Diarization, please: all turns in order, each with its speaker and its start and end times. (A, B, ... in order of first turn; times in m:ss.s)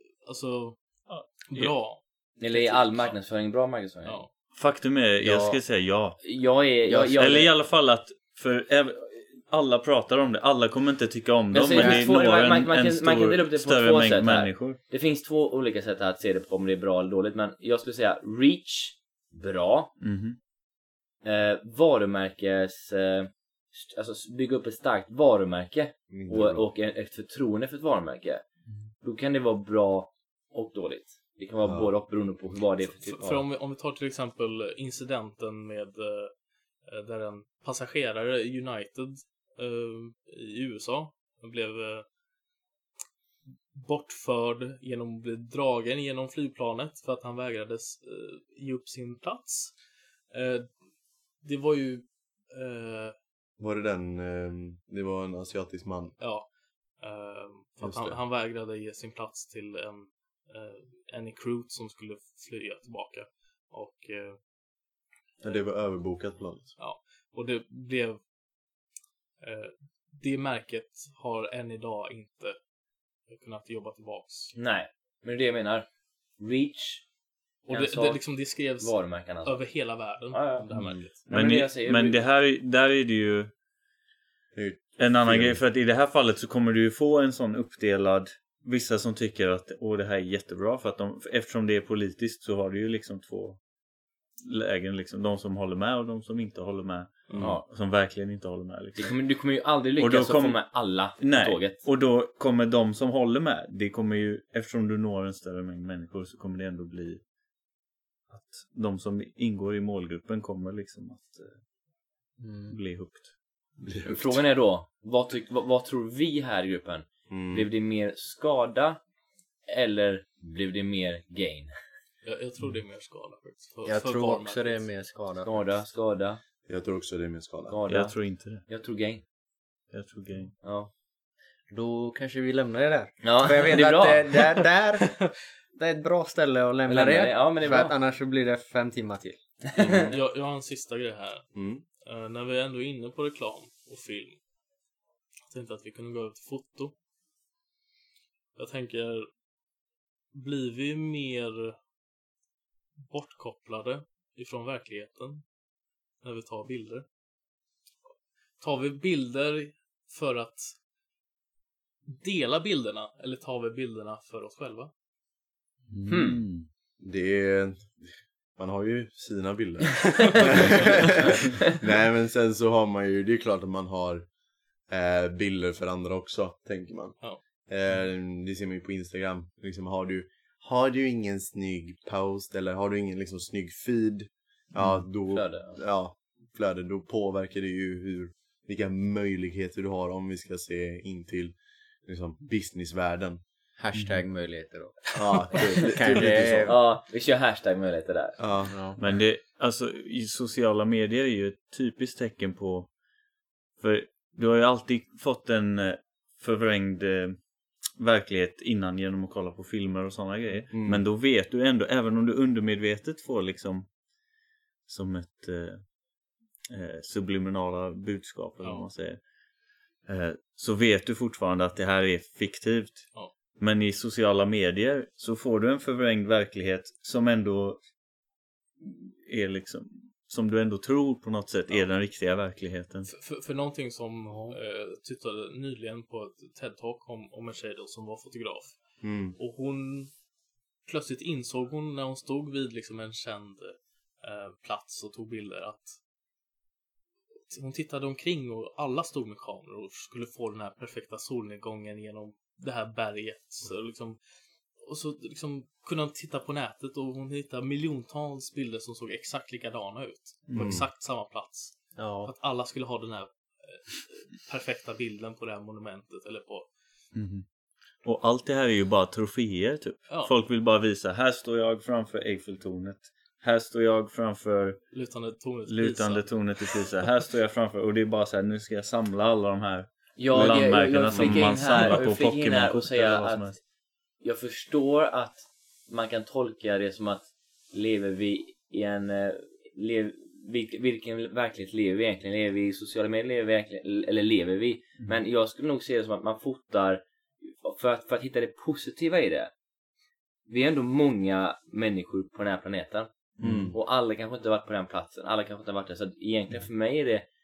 0:00.2-0:00.8 A
0:01.1-0:01.8 B
0:01.4-0:03.2 A
0:02.4-0:04.2 C
0:04.0-0:04.3 A
0:04.5-0:06.2 B
0:05.2-0:05.6 D
0:06.2-0:07.6 C
0:06.9-0:07.3 D
0:07.1-0:14.8 B
0:11.5-0:19.9 C
0:11.7-0:12.1 D
0:20.0-0:20.4 B
0:21.2-0:28.4 C
0:26.1-0:26.6 E
0:29.0-0:33.5 C
0:31.6-0:31.9 E
0:32.9-0:36.3 A
0:36.8-0:42.1 A
0:43.7-0:49.7 A
0:50.3-0:50.7 A
0:51.4-0:53.2 A
0:53.6-0:56.2 E
0:56.2-1:04.4 A
0:57.8-0:58.2 E
1:05.4-1:06.7 E
1:06.8-1:08.2 A
1:09.4-1:12.6 A
1:13.3-1:14.5 A
1:14.5-1:17.0 C
1:17.7-1:21.2 A
1:17.7-1:18.2 C
1:18.8-1:19.6 C
1:20.3-1:22.2 C
1:20.8-1:21.1 E
1:21.3-1:23.5 B
1:24.5-1:25.6 E
1:25.0-1:33.6 B
1:34.4-1:39.2 B
1:37.3-1:37.6 E
1:39.0-1:41.8 C
1:40.0-1:47.2 B
1:48.3-1:51.6 B
1:52.4-1:52.8 D
1:52.7-1:53.4 B
1:53.8-1:54.4 E
1:54.0-1:59.0 C
1:57.3-1:57.7 E
1:59.7-2:01.7 C
2:02.2-2:04.9 A
2:03.8-2:05.6 D
2:05.4-2:06.4 C
2:06.7-2:07.8 E
2:07.7-2:09.2 C
2:07.9-2:08.7 B
2:09.9-2:10.6 B
2:10.6-2:10.9 C
2:11.7-2:19.4 D
2:13.2-2:14.6 C
2:16.9-2:17.9 C
2:19.6-2:20.1 C
2:19.8-2:20.1 E
2:20.1-2:24.4 A
2:21.6-2:21.8 E
2:25.5-2:26.9 A
2:28.6-2:29.3 A
2:30.3-2:31.8 A
2:33.1-2:35.4 A
2:36.2-2:37.0 A
2:38.6-2:40.7 A
2:42.1-2:44.9 A
2:45.9-2:46.4 D
2:46.1-2:46.4 C
2:46.2-2:46.7 B
2:47.0-2:54.3 E
2:50.3-2:50.8 C
2:54.9-3:13.4 E
3:05.3-3:05.8 C
3:13.8-3:16.8 D
3:13.9-3:14.2 B
3:15.1-3:16.8 E
3:16.6-3:18.4 C
3:18.4-3:18.9 E
3:18.7-3:19.0 D
3:19.0-3:22.9 B
3:23.8-3:33.9 B
3:30.7-3:31.0 E
3:34.9-3:35.9 B
3:36.7-3:39.2 B
3:38.6-3:38.9 A
3:40.0-3:47.8 B
3:48.8-3:53.1 B
3:53.1-4:00.1 A
3:54.3-3:54.6 D
3:59.0-3:59.4 E
4:00.8-4:06.0 A
4:07.5-4:14.2 A
4:14.8-4:26.7 A
4:20.5-4:20.8 B
4:20.6-4:20.8 E
4:22.0-4:22.3 D
4:27.1-4:27.4 B
4:28.0-4:34.8 B
4:34.9-4:36.8 A
4:35.7-4:43.6 B
4:40.2-4:43.6 C
4:41.2-4:41.9 E
4:44.2-4:59.5 C
5:00.5-5:03.1 C
5:03.4-5:03.8 B
5:03.4-5:03.8 E
5:03.7-5:07.3 C